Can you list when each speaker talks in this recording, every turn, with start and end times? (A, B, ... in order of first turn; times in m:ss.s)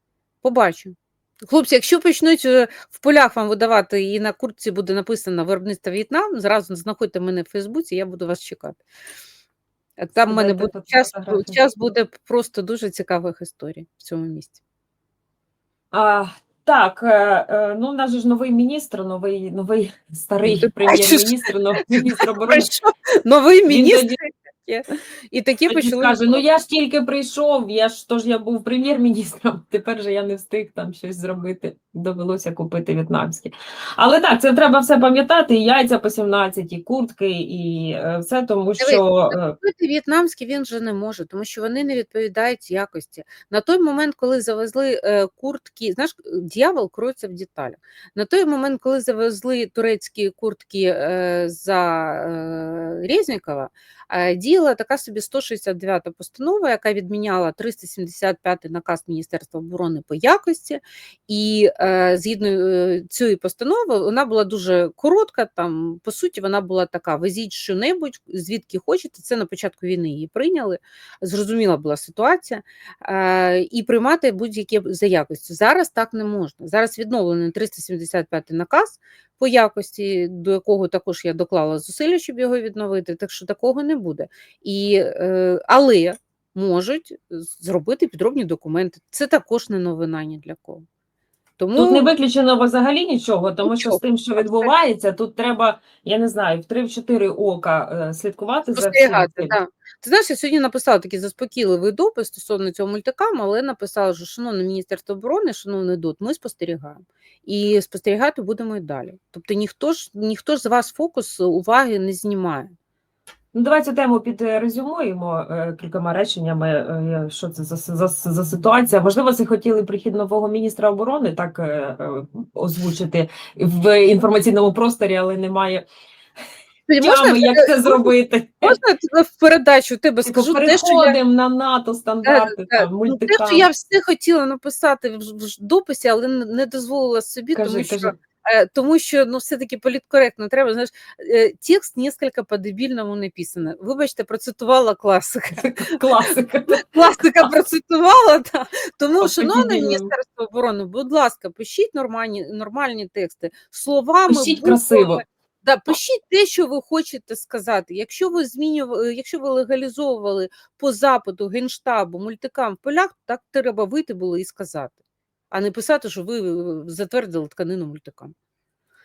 0:00.4-0:08.8 A
0:10.0-0:14.6 A
0:10.2-0:11.6 B
0:15.9-0:22.7 B
0:20.4-0:21.3 A
0:22.0-0:26.4 A
0:23.7-0:24.2 B
0:25.7-0:39.6 B
0:38.8-1:30.8 A
1:31.6-1:32.1 A
1:31.8-1:39.6 B
1:33.6-1:34.7 A
1:38.8-1:52.7 A
1:53.5-2:05.8 B
2:06.9-2:08.1 A
2:07.0-2:08.8 B
2:08.6-2:11.2 A
2:10.2-2:13.7 B
2:12.2-2:26.0 A
2:17.6-2:18.2 B
2:25.6-2:26.8 B
2:26.7-2:45.0 A
2:29.2-2:30.1 B
2:34.3-2:35.2 B
2:45.5-2:48.3 A